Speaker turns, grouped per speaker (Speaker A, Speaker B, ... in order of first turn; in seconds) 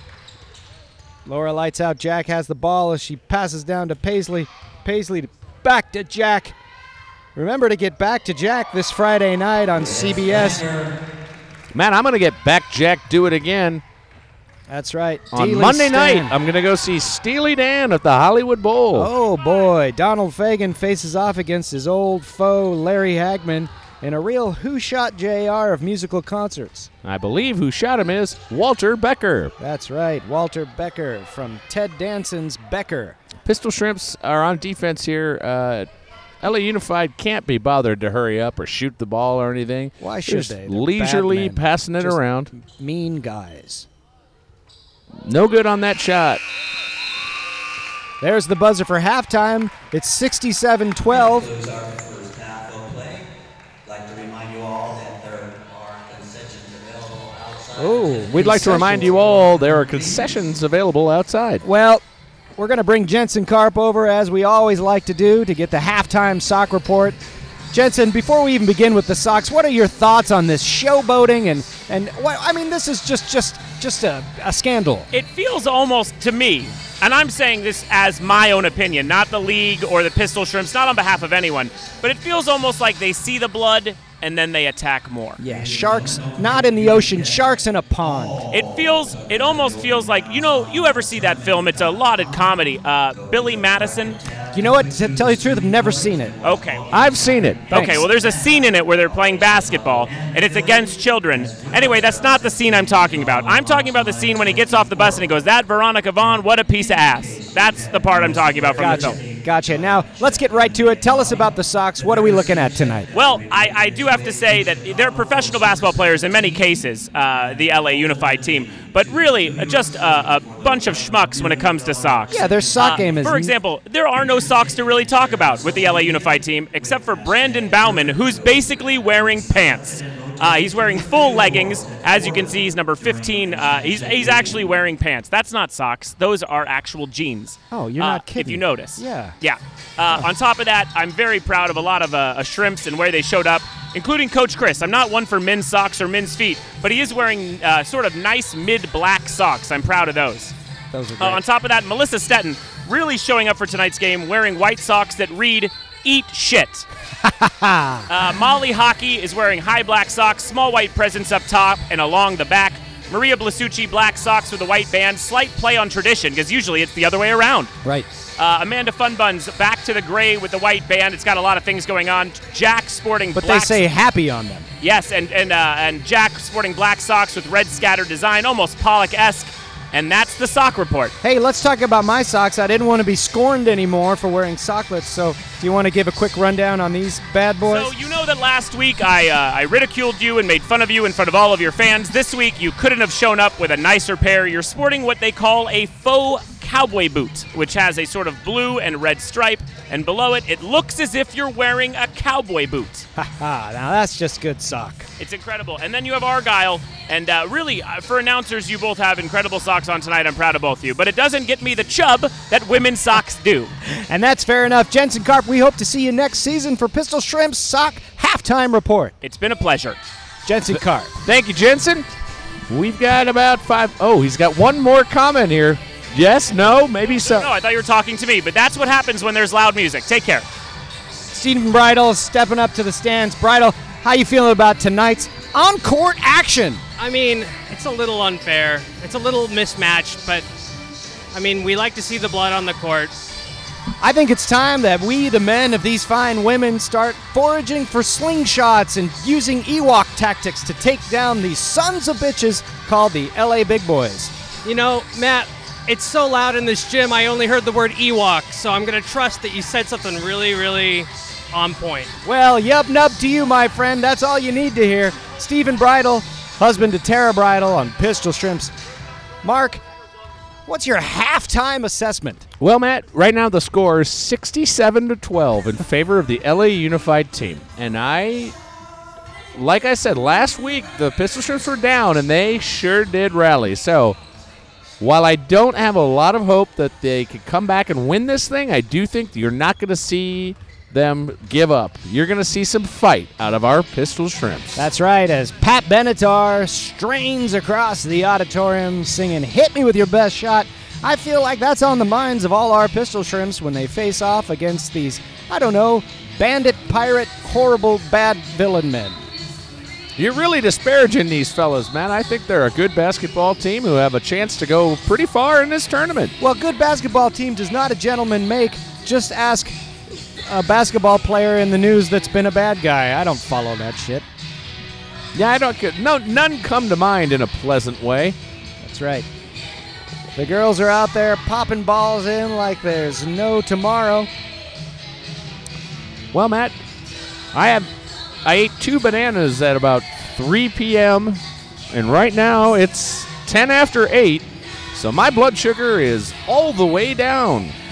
Speaker A: 1.2-6.5, 7.3-10.7, 14.7-16.3, 18.9-26.9, 29.6-33.2, 40.0-43.9, 48.2-51.5, 57.8-59.2, 61.6-62.0, 62.6-67.2, 67.7-75.1, 85.4-88.4, 94.5-96.3, 97.7-98.0, 108.8-113.1, 122.3-123.5, 137.7-139.3, 150.9-151.4, 157.2-158.1, 173.3-174.7, 181.2-187.9, 203.2-205.1, 213.8-219.1, 220.4-221.1, 231.3-236.8, 244.0-254.3, 262.2-268.7, 269.4-269.8, 270.6-272.4, 294.8-309.2, 316.4-319.7, 320.4-324.2, 328.8-329.3, 330.4-334.3
Speaker B: 9.7-10.9, 51.1-53.3, 53.8-60.5, 85.4-105.5, 106.2-123.4, 124.1-134.8
Speaker C: 11.7-13.8, 15.3-19.1, 27.0-29.5, 33.4-35.9, 36.4-42.5, 45.2-46.4, 58.0-61.6, 96.9-97.6, 221.2-222.1, 222.7-227.5, 272.6-278.6, 279.5-284.2, 285.0-294.9, 310.1-316.3, 325.3-328.4, 336.3-336.8, 337.5-337.9, 338.4-347.8
Speaker D: 75.1-85.4, 88.5-94.2, 96.4-96.8, 97.7-109.2, 113.1-150.5, 151.2-156.9, 158.1-167.7, 168.4-173.8, 174.8-181.1, 187.6-203.1, 205.2-213.7, 219.2-220.0, 227.0-230.5
Speaker E: 237.0-240.5, 241.3-243.3, 254.6-262.1